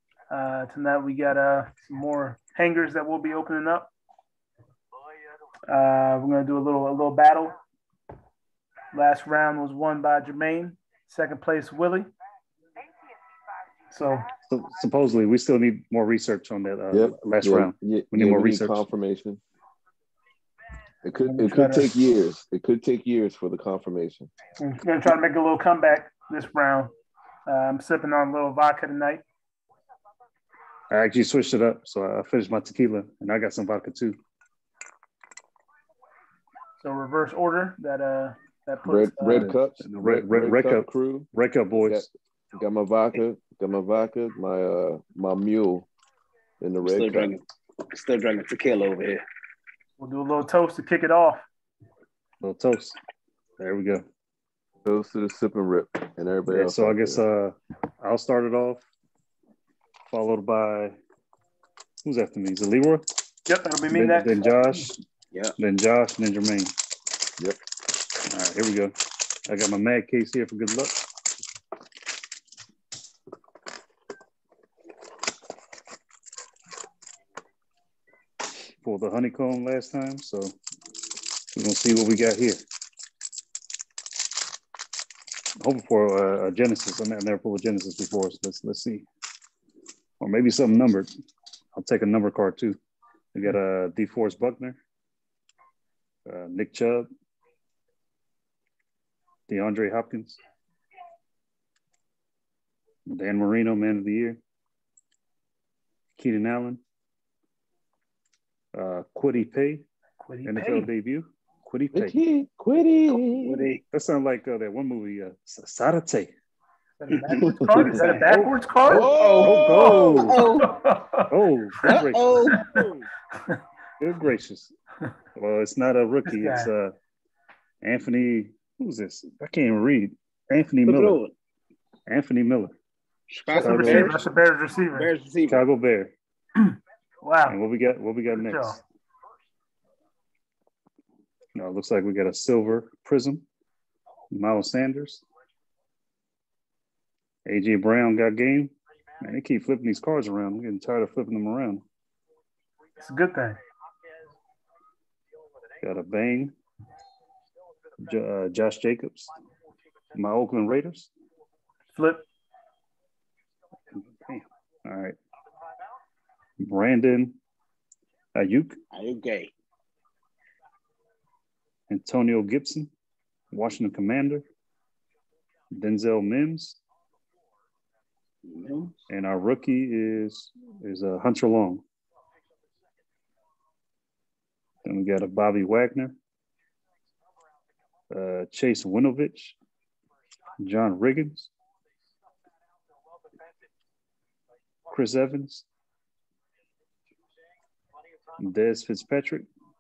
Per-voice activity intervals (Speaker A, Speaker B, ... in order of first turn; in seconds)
Speaker A: 0.3-3.9, 5.7-7.6, 8.9-12.1, 13.9-14.3, 21.2-21.9, 24.6-26.9, 27.5-29.2, 36.8-39.6, 50.0-51.5, 63.5-64.5, 110.2-110.9, 117.0-119.1, 119.7-121.3, 121.9-123.6, 126.3-126.7, 133.5-135.1, 136.6-137.6, 138.3-138.8, 153.0-153.6, 161.9-162.2
Speaker B: 14.5-18.9, 30.9-34.2, 39.4-42.1, 52.4-53.0, 53.6-54.1, 56.5-58.8, 60.1-61.0, 62.0-63.1, 63.9-65.0, 65.6-66.7, 68.3-68.9, 69.5-71.0, 78.8-80.6, 81.5-82.6, 85.6-89.1, 90.2-91.1, 91.7-92.8, 93.3-94.8, 96.3-97.1, 99.5-100.4, 103.1-104.4, 106.2-106.8, 108.7-109.8, 110.5-112.1, 113.9-116.3, 118.3-118.5, 119.4-120.4, 121.3-122.5, 124.0-124.7, 125.4-127.0, 127.8-131.2, 132.1-132.8, 133.6-134.0, 135.5-136.1, 137.5-138.8, 141.6-143.4, 144.3-145.2, 147.5-151.8, 155.8-156.5, 158.0-159.3, 160.1-161.1, 164.2-165.2, 166.6-167.4, 168.3-168.8, 171.9-172.9, 173.5-174.4, 175.7-176.8, 179.1-181.8, 184.8-186.2, 188.1-189.6, 190.6-191.5, 194.9-195.7, 198.4-199.5
Speaker C: 16.9-19.4, 21.0-24.3, 38.9-41.3, 41.8-45.9, 46.6-47.3, 54.8-57.2, 111.9-113.7, 117.5-118.2, 118.9-120.3, 122.5-123.1, 133.7-134.1
Speaker D: 46.8-49.2, 113.1-113.8, 117.1-118.1, 118.9-120.7, 121.8-122.7, 130.8-131.3, 133.3-134.2, 134.9-135.7, 168.9-169.5, 178.5-179.0